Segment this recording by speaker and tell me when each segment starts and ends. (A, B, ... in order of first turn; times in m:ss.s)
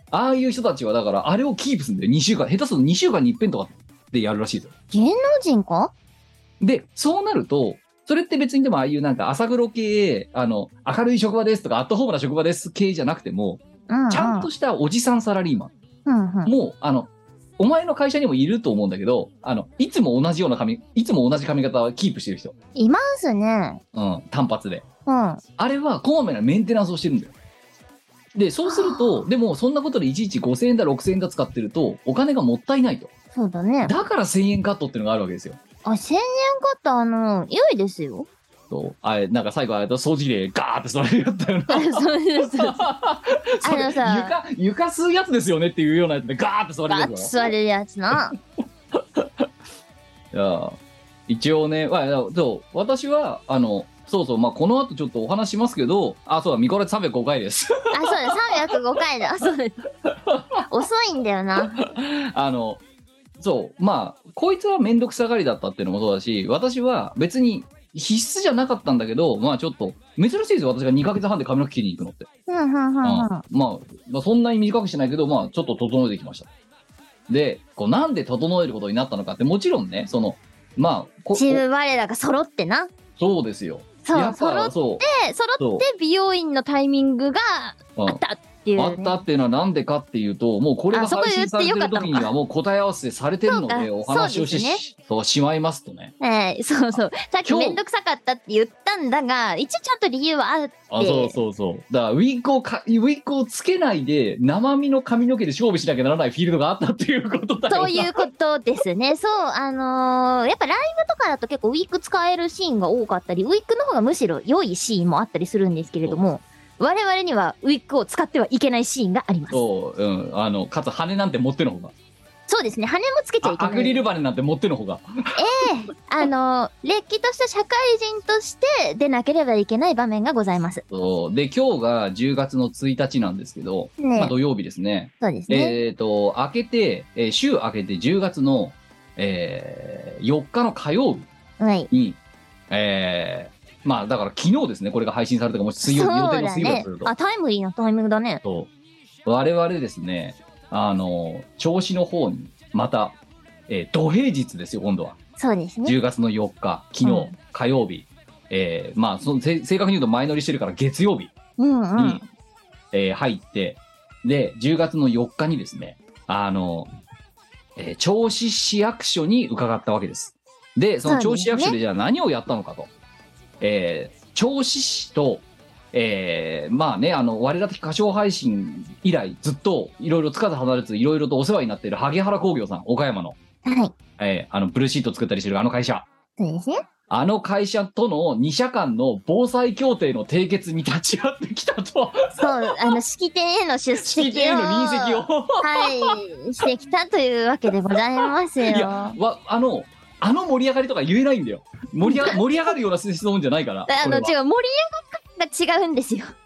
0:00.1-0:04.7 A
0:04.9-0:05.9 B
0:06.6-0:15.7 A
0:13.9-0:14.5 B
0:16.0-0:16.5 B
0:16.4-0:22.5 A
0:22.8-0:23.8 B
0:23.9-0:24.8 A
0:25.1-0:25.4 B
0:25.6-0:27.3 A
0:28.3-0:33.1 A
0:28.6-0:29.3 B
0:33.3-0:33.9 B
0:33.8-0:35.6 A
0:35.8-0:38.3 B
0:38.7-0:47.3 A
0:41.7-0:42.8 B
0:43.6-0:44.4 B
0:46.9-0:48.3 B
0:49.0-0:49.5 A
0:50.3-0:58.6 A
0:57.9-0:59.8 B
1:00.1-1:00.6 A
1:00.7-1:01.8 B
1:01.8-1:02.8 A
1:03.4-1:12.3 A
1:12.5-1:13.4 B
1:13.0-1:16.5 A
1:17.3-1:21.6 A
1:21.3-1:22.9 B
1:23.2-1:25.0 A
1:24.0-1:29.2 B
1:25.6-1:25.8 A
1:28.0-1:28.2 A
1:28.8-1:36.1 A
1:30.9-1:32.3 B
1:33.5-1:34.8 B
1:36.2-1:41.4 B
1:37.4-1:37.8 A
1:40.9-1:48.1 A
1:47.7-1:59.6 B
1:59.5-2:01.9 A
2:02.5-2:04.0 B
2:03.4-2:05.4 A
2:05.4-2:10.8 B
2:10.9-2:21.3 A
2:14.0-2:14.3 B
2:15.2-2:15.8 B
2:21.6-2:21.9 B
2:21.9-2:22.2 A
2:22.7-2:27.1 A
2:25.8-2:28.4 B
2:28.4-2:28.7 A
2:29.2-2:35.2 A
2:35.4-2:36.0 B
2:35.8-2:41.3 A
2:37.0-2:37.3 B
2:41.6-2:42.2 B
2:42.0-2:42.2 A
2:42.9-2:46.9 A
2:47.8-2:52.9 A
2:51.0-2:51.8 B
2:53.6-3:03.4 A
3:03.6-3:03.9 B
3:04.2-3:06.1 A
3:06.4-3:06.8 B
3:07.1-3:13.0 A
3:12.4-3:19.2 B
3:13.9-3:16.2 A
3:18.6-3:24.3 A
3:22.0-3:22.4 B
3:23.9-3:26.3 B